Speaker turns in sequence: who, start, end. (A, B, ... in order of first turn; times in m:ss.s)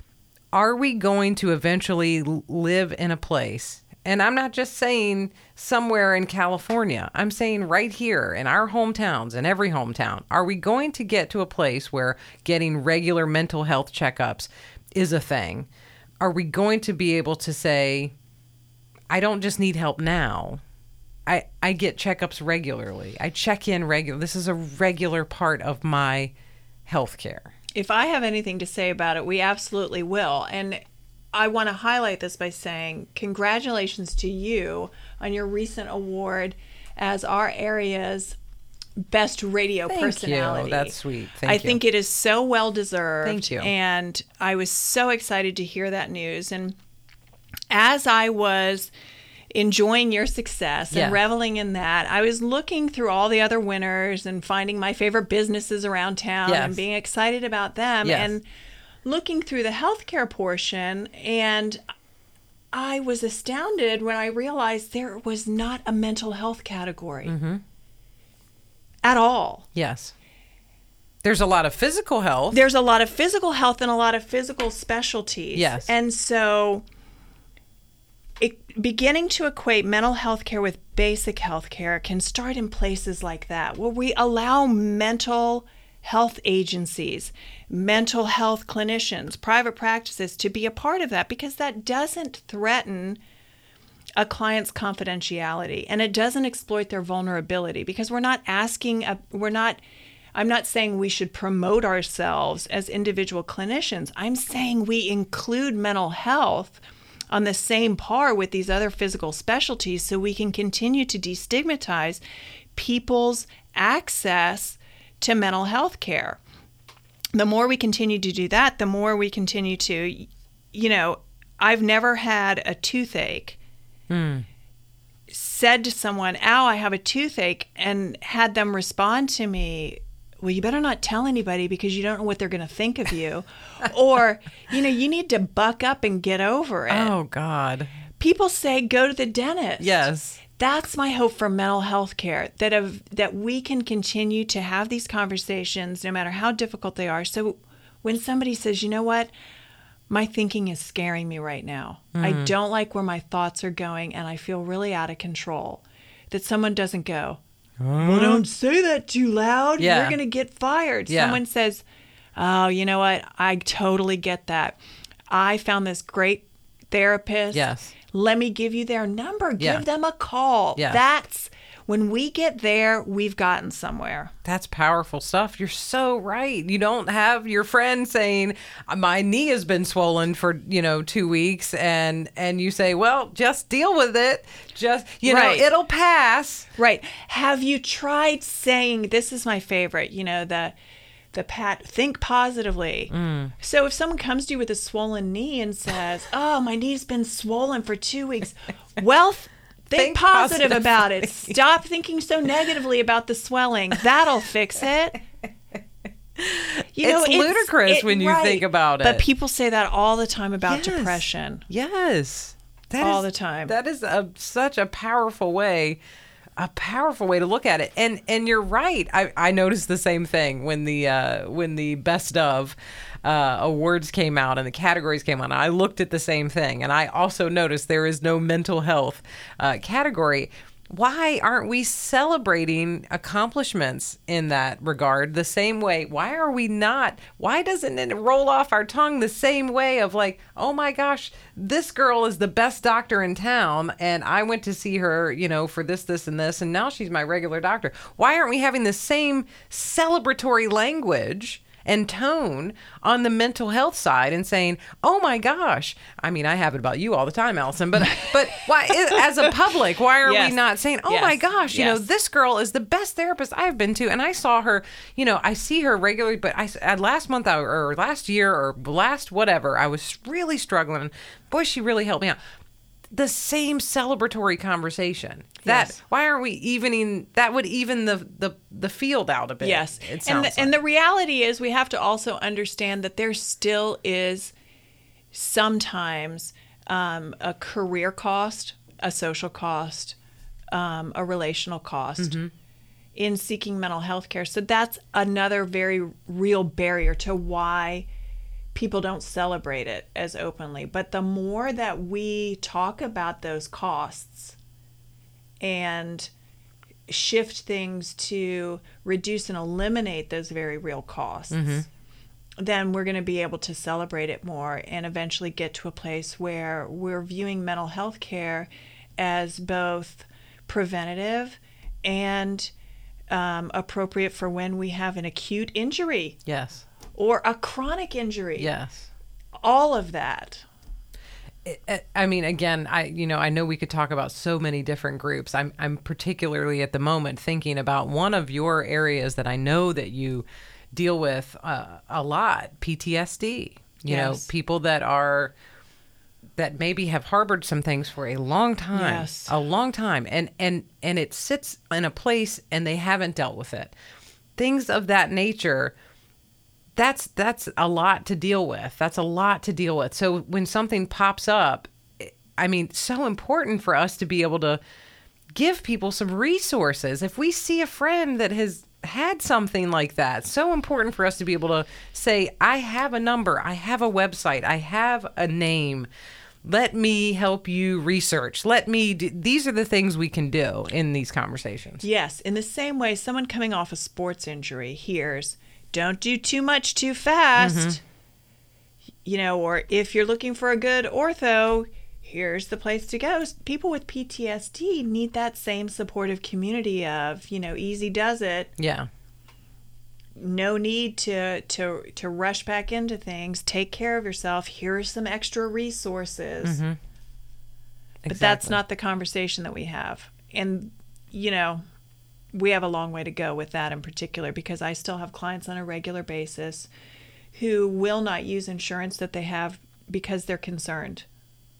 0:00.5-0:15.7 A
0:16.2-0:18.1 A
0:19.1-0:20.6 A
0:21.2-0:26.3 A
0:26.9-0:27.5 A
0:27.7-0:30.8 B
0:31.3-0:38.4 B
0:39.1-0:40.9 B
0:39.9-0:41.8 A
0:41.4-0:46.8 B
0:43.2-0:43.7 A
0:47.7-0:48.9 B
0:49.5-0:58.4 B
0:50.9-0:51.2 A
0:56.5-0:56.8 A
0:58.0-0:58.3 A
0:59.0-1:01.8 B
1:02.7-1:07.3 B
1:07.2-1:07.6 A
1:09.0-1:09.7 B
1:09.7-1:10.1 A
1:11.2-1:12.6 A
1:12.5-1:16.8 B
1:15.5-1:15.9 A
1:18.4-1:33.2 B
1:34.2-1:39.8 B
1:40.3-1:46.8 B
1:47.3-1:52.2 B
1:52.8-1:56.4 B
1:57.3-2:03.6 B
2:04.1-2:04.4 A
2:05.3-2:17.1 B
2:16.9-2:17.9 A
2:18.2-2:29.3 B
2:19.8-2:20.4 A
2:30.1-2:37.4 B
2:32.1-2:32.5 A
2:37.8-2:38.4 A
2:38.0-2:41.8 B
2:39.8-2:40.2 A
2:41.1-2:41.4 A
2:42.4-2:44.8 B
2:45.3-2:54.3 B
2:47.5-2:47.9 A
2:49.6-2:49.8 A
2:54.4-3:06.7 A
3:05.2-3:05.7 B
3:06.8-3:10.8 B
3:11.3-3:25.2 B
3:13.1-3:13.5 A
3:19.9-3:21.5 A
3:26.4-3:29.2 A
3:26.9-3:31.6 B
3:30.7-3:36.0 A
3:33.0-3:33.7 B
3:36.6-4:32.4 A
4:20.2-4:22.0 B
4:33.1-4:40.7 A
4:35.6-4:36.0 B
4:39.6-4:44.5 B
4:45.3-4:50.2 B
4:50.7-4:52.4 B
4:52.2-4:52.5 A
4:53.1-4:58.1 B
4:58.7-5:04.6 B
5:05.6-5:06.3 B
5:07.1-5:11.9 B
5:11.5-5:11.8 A
5:12.6-5:22.7 B
5:23.3-5:26.4 B
5:26.4-5:26.8 A
5:27.2-5:28.7 B
5:28.6-5:29.1 A
5:29.6-5:30.6 B
5:31.6-5:45.5 A
5:44.1-5:44.5 B
5:46.6-5:53.9 A
5:48.9-5:49.5 B
5:54.6-5:55.9 A
5:57.0-6:04.8 A
6:05.5-6:16.1 A
6:16.6-6:22.0 A
6:22.0-6:28.0 B
6:27.6-6:28.0 A
6:29.2-6:38.7 B
6:38.8-6:39.1 A
6:40.4-6:46.8 B
6:46.6-6:47.0 A
6:48.2-6:48.8 A
6:48.3-6:51.8 B
6:52.5-6:56.9 B
6:57.5-7:01.2 B